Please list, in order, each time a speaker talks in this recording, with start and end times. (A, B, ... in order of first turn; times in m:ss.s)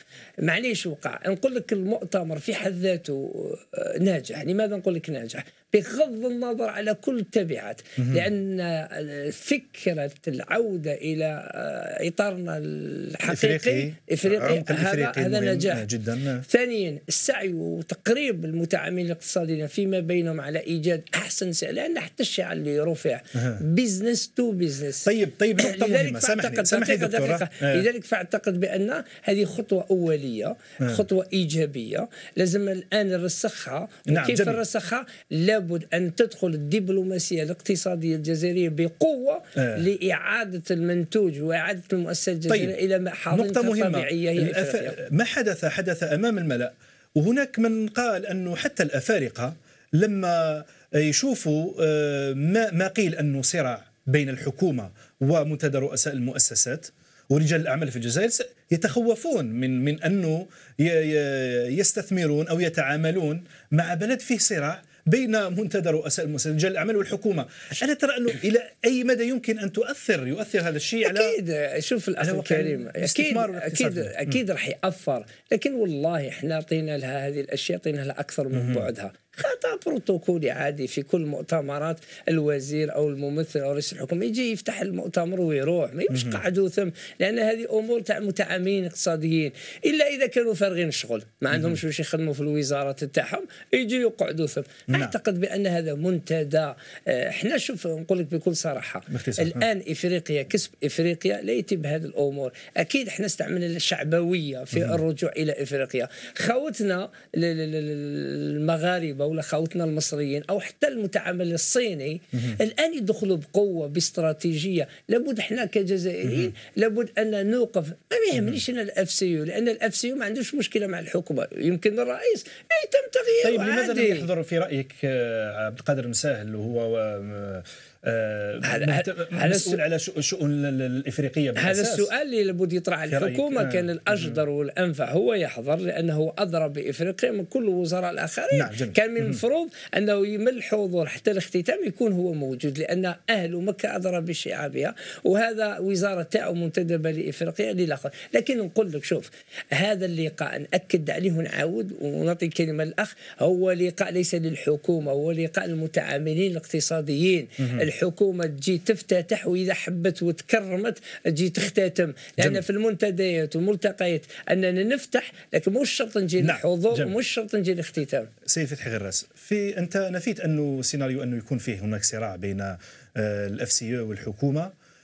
0:00.4-0:15.9 A
0:08.0-0:08.2 B
0:13.2-0:16.4 B
0:16.4-0:45.0 A
0:23.4-0:23.6 B
0:25.0-0:27.8 B
0:34.1-0:34.6 B
0:39.6-0:39.8 B
0:42.5-0:42.7 B
0:43.3-1:11.4 B
1:11.0-2:04.3 A
1:12.2-1:14.1 B
1:18.5-1:18.8 B
1:26.1-1:26.4 B
1:31.5-1:31.8 B
1:39.1-1:39.6 B
2:03.4-2:12.1 B
2:08.6-2:09.8 A
2:11.6-2:48.3 A
2:13.1-2:14.4 B
2:18.5-2:19.4 B
2:37.6-2:37.8 B
2:46.4-2:47.1 B
2:48.4-2:54.7 B